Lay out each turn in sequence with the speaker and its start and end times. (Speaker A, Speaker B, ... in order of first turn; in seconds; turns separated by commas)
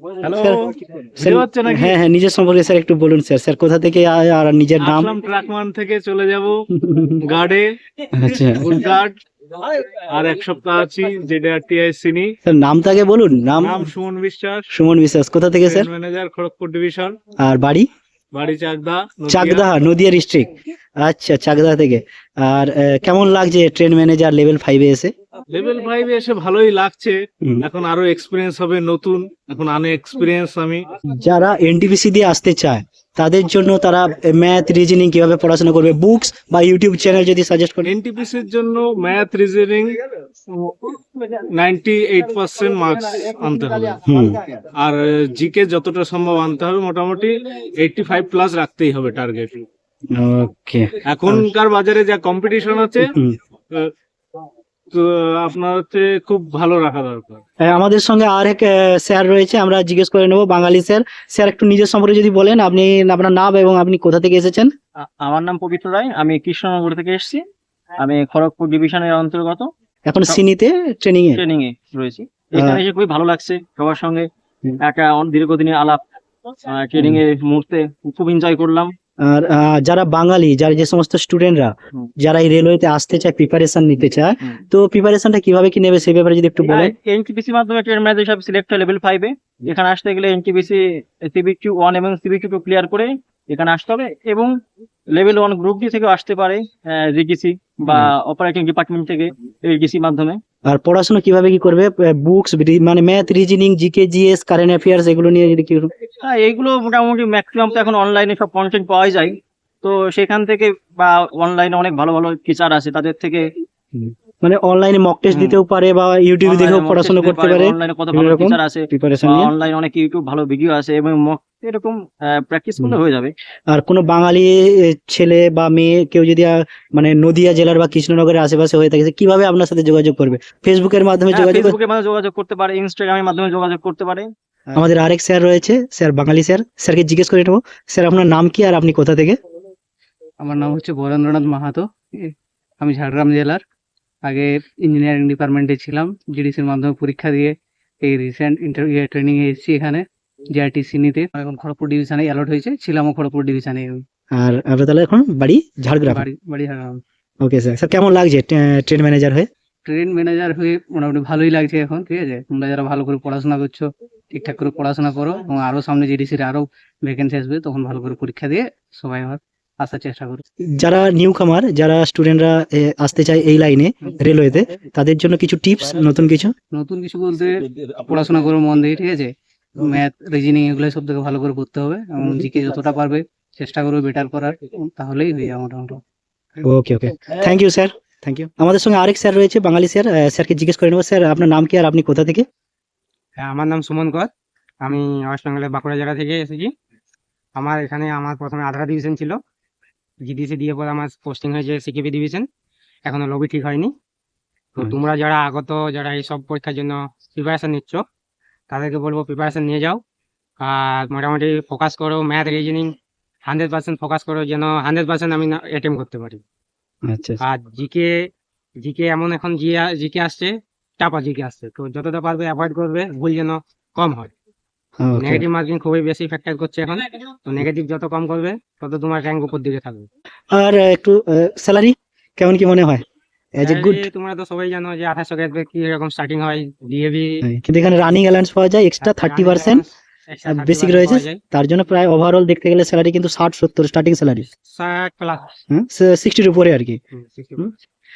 Speaker A: 0.2-1.9, Speaker B: 0.3-0.6, Speaker B: 1.2-5.1, Speaker A: 4.8-6.6, Speaker B: 6.8-7.1, Speaker A: 7.2-7.7, Speaker B: 8.2-8.7, Speaker A: 8.4-9.2, Speaker A: 9.7-12.3, Speaker B: 12.4-13.9, Speaker A: 13.6-14.6, Speaker B: 14.7-15.9, Speaker A: 15.6-17.2, Speaker B: 17.4-17.9, Speaker A: 18.3-19.7, Speaker B: 19.3-20.5, Speaker B: 21.0-25.1, Speaker A: 25.5-30.9, Speaker B: 31.1-37.9, Speaker A: 37.8-40.0, Speaker A: 40.5-44.0, Speaker B: 44.0-44.4, Speaker A: 44.8-49.6, Speaker B: 50.1-51.5, Speaker A: 51.1-53.0, Speaker A: 54.9-57.4, Speaker B: 57.6-64.7, Speaker C: 65.0-67.4, Speaker C: 68.0-69.7, Speaker B: 70.0-71.4, Speaker C: 71.3-74.3, Speaker B: 72.5-72.8, Speaker C: 74.8-76.0, Speaker C: 76.7-78.9, Speaker B: 79.2-86.9, Speaker C: 86.7-94.5, Speaker C: 95.1-100.4, Speaker B: 100.7-105.9, Speaker C: 106.2-113.5, Speaker B: 113.9-119.5, Speaker C: 115.3-115.6, Speaker C: 116.4-123.3, Speaker B: 123.7-131.8, Speaker C: 131.3-134.3, Speaker B: 134.7-139.4, Speaker D: 140.4-143.6, Speaker D: 144.2-154.0, Speaker B: 154.4-156.3, Speaker D: 156.1-157.0, Speaker B: 157.4-159.5, Speaker D: 159.8-170.4, Speaker B: 170.8-176.5, Speaker D: 176.7-186.0, Speaker B: 186.6-192.4, Speaker E: 193.4-194.3, Speaker E: 194.8-196.7, Speaker E: 197.6-199.4, Speaker E: 200.2-202.4, Speaker E: 203.0-203.9, Speaker E: 204.8-208.0, Speaker E: 208.7-210.0, Speaker E: 210.6-216.4, Speaker B: 217.1-217.4, Speaker E: 217.4-218.3, Speaker E: 218.8-224.3, Speaker B: 225.0-225.4, Speaker E: 225.2-230.1, Speaker B: 230.5-233.0, Speaker B: 233.5-234.0, Speaker E: 233.6-237.4, Speaker B: 237.4-239.8, Speaker E: 239.0-241.4, Speaker B: 240.5-244.4, Speaker E: 244.7-245.5, Speaker B: 245.7-247.0, Speaker E: 247.1-247.7